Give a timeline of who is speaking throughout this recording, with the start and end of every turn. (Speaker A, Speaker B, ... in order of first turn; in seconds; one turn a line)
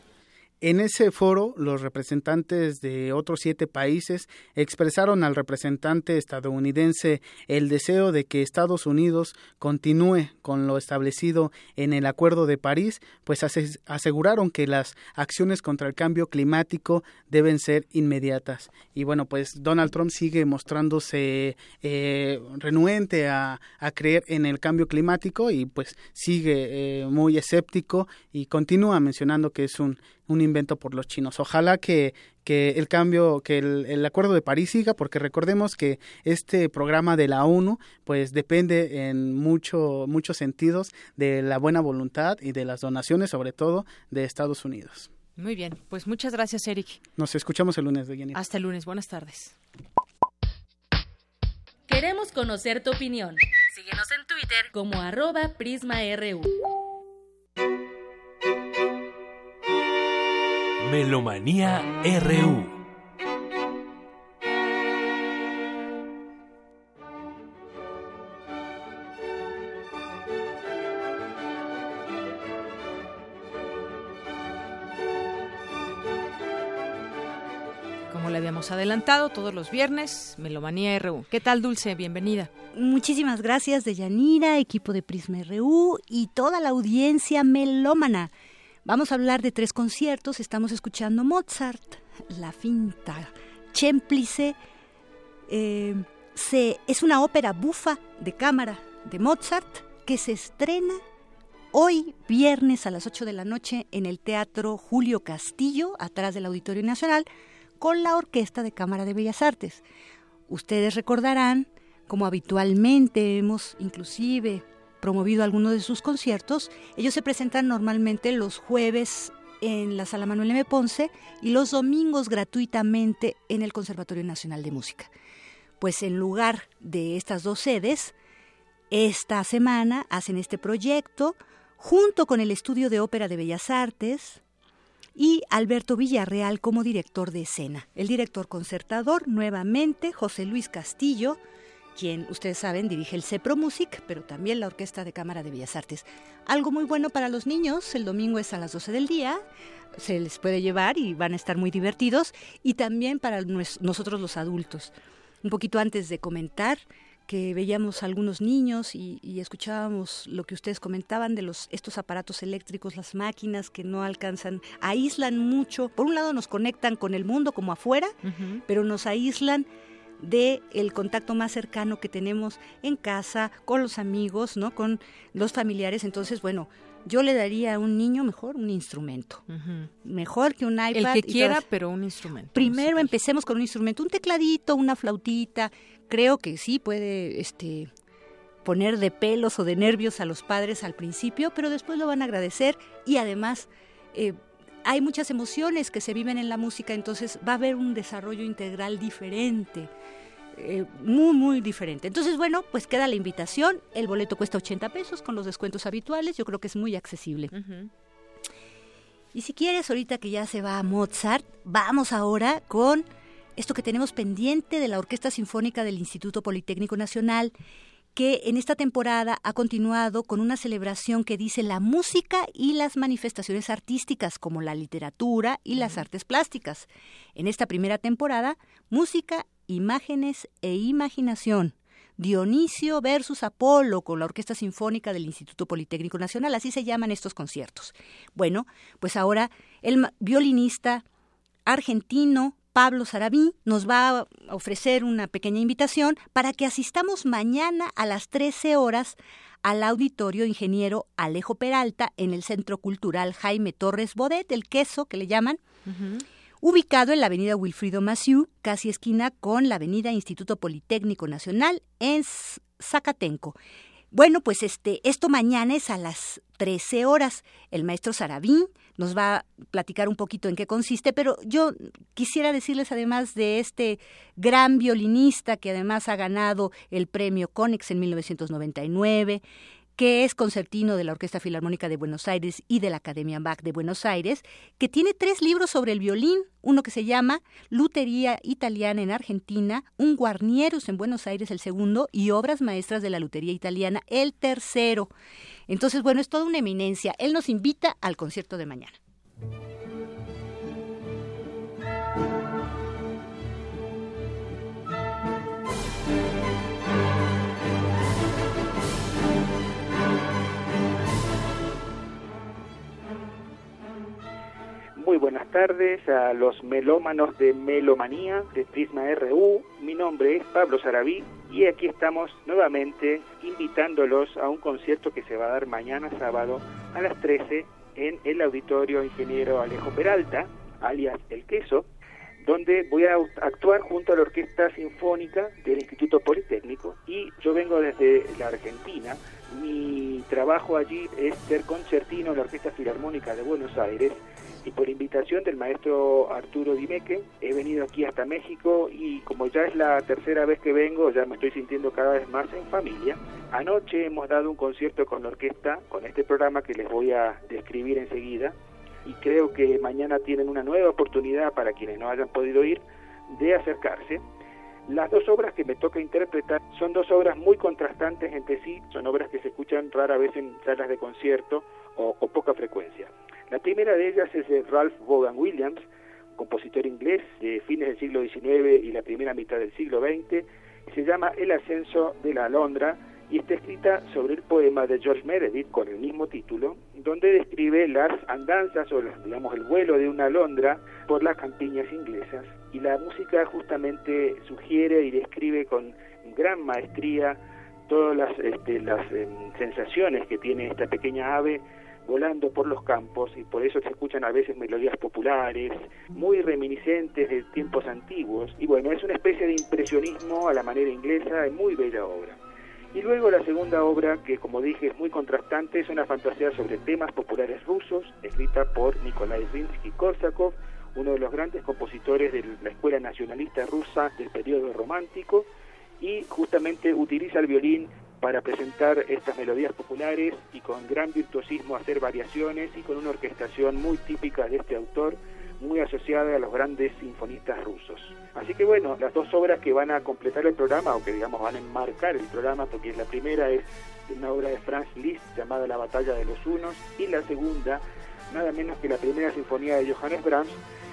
Speaker A: 0.6-45.1
Speaker B: 45.4-47.0
Speaker A: 47.2-48.4
Speaker B: 48.3-49.5
Speaker C: 51.9-56.5
Speaker D: 60.8-62.8
Speaker B: 78.1-82.5
Speaker E: 82.7-88.3
Speaker E: 88.8-94.5
Speaker E: 95.5-101.0
Speaker E: 101.7-107.3
Speaker E: 107.8-109.8
Speaker E: 110.5-125.1
Speaker E: 125.8-128.1
Speaker E: 128.9-134.4
Speaker E: 135.2-141.4
Speaker E: 141.9-149.4
Speaker E: 150.0-154.9
Speaker E: 155.4-168.2
Speaker B: 168.2-168.6
Speaker E: 168.7-169.7
Speaker E: 170.2-179.4
Speaker B: 179.5-179.9
Speaker E: 180.0-181.6
Speaker B: 180.9-183.1
Speaker E: 182.5-187.9
Speaker E: 188.6-199.9
Speaker E: 200.6-207.5
Speaker B: 207.5-207.9
Speaker E: 209.3-213.1
Speaker E: 213.6-217.5
Speaker E: 218.1-241.0
Speaker E: 241.7-255.6
Speaker B: 255.8-256.2
Speaker E: 256.6-263.6
Speaker E: 264.1-279.4
Speaker E: 280.0-295.1
Speaker E: 295.7-298.9
Speaker F: 314.9-331.9
Speaker F: 332.4-358.5
Speaker F: 359.0-364.2
Speaker F: 364.9-375.8
Speaker F: 376.4-412.4
Speaker F: 412.9-425.5
Speaker F: 426.0-450.6